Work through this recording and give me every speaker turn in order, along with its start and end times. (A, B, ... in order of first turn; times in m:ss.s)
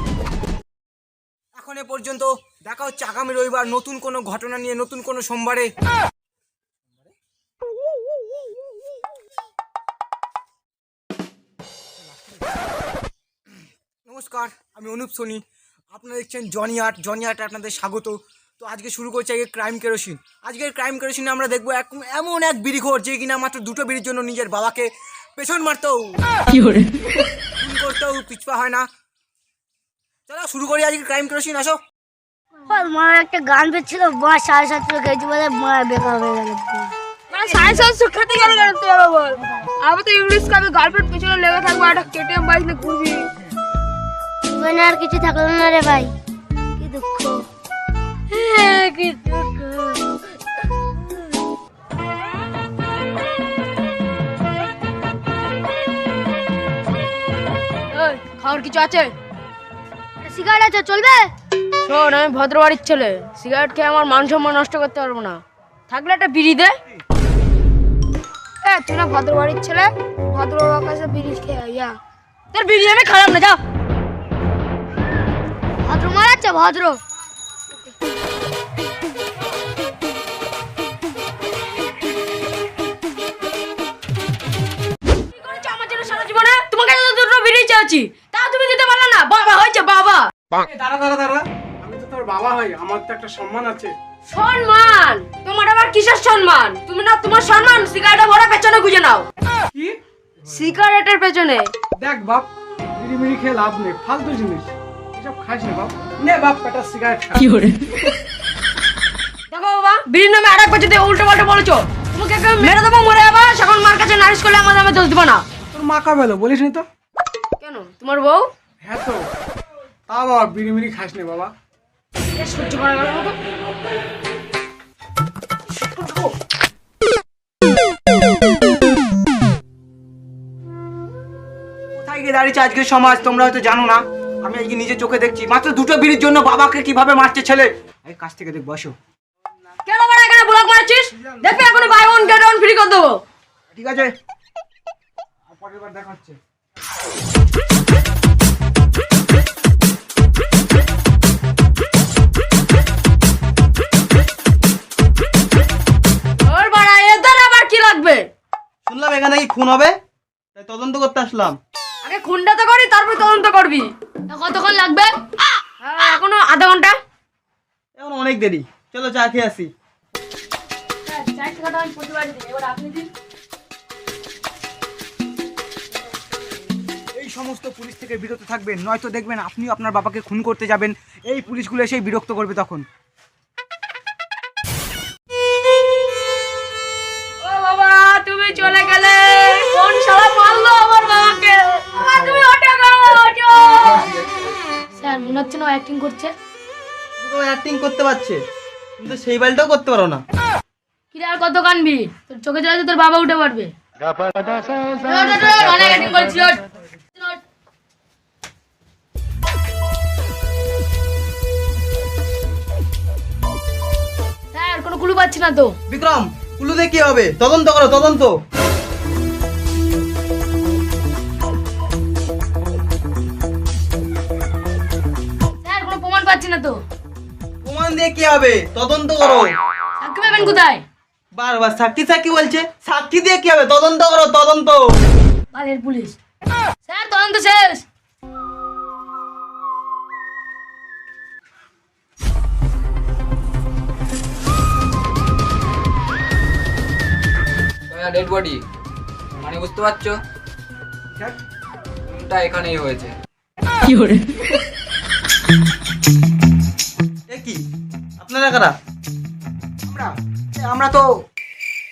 0:01.6-0:05.7 A
0:12.1-0:12.4 A
0:14.1-0:26.2 A
0:27.6-0:28.9 A
0:30.3-0:31.8 A
0:32.7-0:36.9 B
0:37.3-0:43.3 C
0:44.5-0:46.1 B
0:46.8-0:47.5 B
0:48.3-0:49.9 C
0:57.9-0:59.1 C
1:00.2-1:01.3 C
1:01.8-1:06.8 C
1:08.6-1:12.0 C
1:12.5-1:13.6 C
1:15.8-1:17.0 C
1:25.3-1:30.3 C
1:30.6-1:33.9 D
1:34.3-1:39.3 C
1:40.5-1:41.7 C
1:42.0-1:42.4 D
1:43.0-1:47.6 D
1:49.5-1:55.4 C
1:55.7-1:56.8 D
1:57.6-1:58.5 C
1:58.8-1:59.2 D
2:00.1-2:01.5 D
2:02.4-2:03.4 C
2:11.9-2:18.9 A
2:19.9-2:23.2 C
2:23.7-2:24.1 A
2:25.5-2:26.3 A
2:36.4-2:38.3 C
2:38.9-2:40.0 E
2:40.6-2:41.6 E
2:42.0-2:45.2 C
2:45.8-2:47.0 C
2:48.0-2:49.7 E
2:51.0-2:53.1 C
2:57.2-3:02.8 A
3:07.4-3:14.1 C
3:15.0-3:16.3 C
3:17.2-3:18.4 E
3:19.0-3:20.2 E
3:21.1-3:23.7 C
3:25.0-3:26.6 C
3:27.2-3:27.4 C
3:34.5-3:35.8 C
3:35.9-3:38.3 E
3:45.6-3:46.8 C
3:47.6-3:49.5 E
3:50.0-3:50.8 C
3:51.4-3:54.9 E
3:55.5-3:56.2 C
3:56.8-3:57.8 C
4:07.9-4:08.6 F
4:09.4-4:10.2 F
4:12.1-4:13.1 F
4:17.3-4:17.6 E
4:18.2-4:18.8 E
4:19.9-4:21.0 A